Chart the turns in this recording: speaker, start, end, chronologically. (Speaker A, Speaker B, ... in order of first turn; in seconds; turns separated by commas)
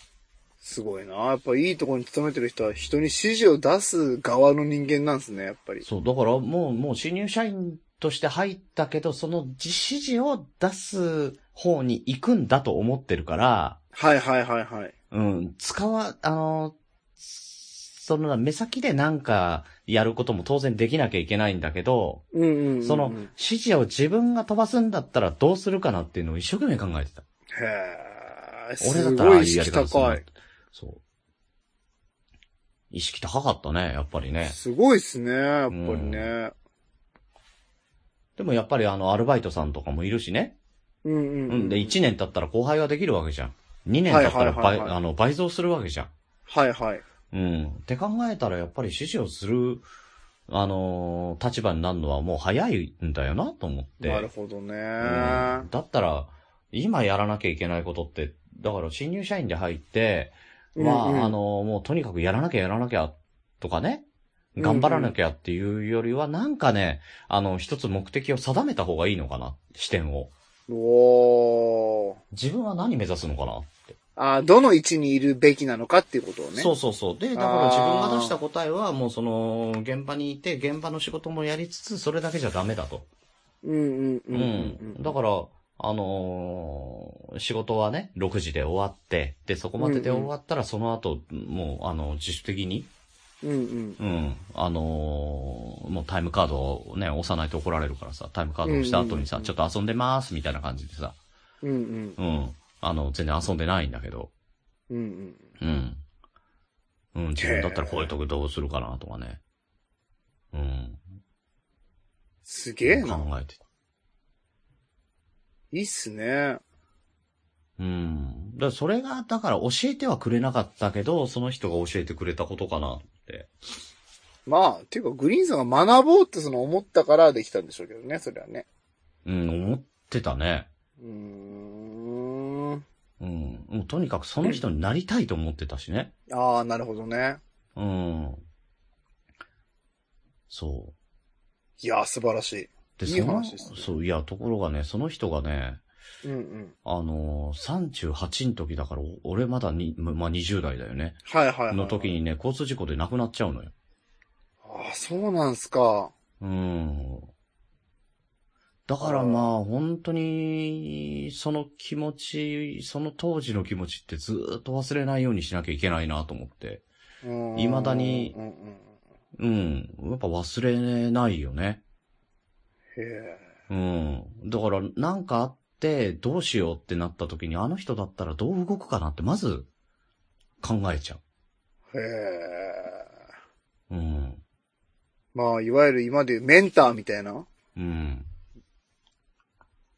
Speaker A: 0.6-5.8, Speaker B: 5.8-13.8, Speaker A: 13.9-14.9, Speaker B: 15.1-22.2, Speaker A: 22.3-23.3, Speaker B: 22.8-27.2, Speaker A: 27.6-30.2, Speaker B: 28.8-31.0, Speaker B: 32.9-34.5, Speaker A: 34.4-36.5, Speaker B: 35.7-36.3, Speaker B: 38.4-40.5, Speaker A: 41.0-42.0, Speaker B: 41.5-46.1, Speaker A: 44.1-44.9, Speaker A: 46.5-47.0, Speaker B: 47.3-49.8, Speaker B: 50.5-54.3, Speaker A: 54.0-55.7, Speaker B: 55.0-64.0, Speaker A: 60.8-61.3, Speaker A: 64.6-65.1, Speaker B: 64.6-70.3, Speaker A: 70.7-72.2, Speaker B: 72.3-73.9, Speaker A: 74.2-76.7, Speaker B: 76.5-83.0, Speaker A: 77.3-78.3, Speaker A: 83.6-85.1, Speaker B: 84.3-92.9, Speaker A: 89.8-90.3, Speaker A: 93.4-94.0, Speaker B: 94.0-101.2, Speaker A: 98.6-99.5, Speaker A: 101.6-102.2, Speaker B: 102.2-104.3, Speaker A: 104.9-105.4, Speaker B: 105.6-106.0, Speaker B: 107.1-109.4, Speaker A: 107.4-108.1, Speaker B: 110.5-111.0, Speaker A: 112.5-113.3, Speaker B: 112.8-113.6, Speaker A: 115.7-116.6, Speaker B: 117.8-123.5, Speaker A: 124.5-128.7, Speaker B: 129.2-130.7, Speaker A: 131.0-132.8, Speaker B: 133.2-136.1, Speaker A: 136.3-137.4, Speaker B: 137.8-138.4, Speaker B: 140.5-140.9, Speaker A: 141.8-143.9, Speaker B: 143.0-145.8, Speaker A: 146.2-146.7, Speaker B: 146.8-151.2, Speaker A: 151.3-152.1, Speaker B: 151.7-153.7, Speaker A: 154.6-156.1, Speaker B: 156.4-157.3, Speaker B: 158.9-166.8, Speaker A: 159.0-159.5, Speaker A: 167.2-168.8, Speaker B: 167.6-168.3, Speaker B: 169.4-171.8, Speaker A: 172.9-173.4, Speaker B: 173.7-179.7, Speaker B: 180.6-181.2, Speaker A: 181.9-183.0, Speaker B: 183.9-184.4, Speaker A: 185.3-187.5, Speaker B: 187.8-188.2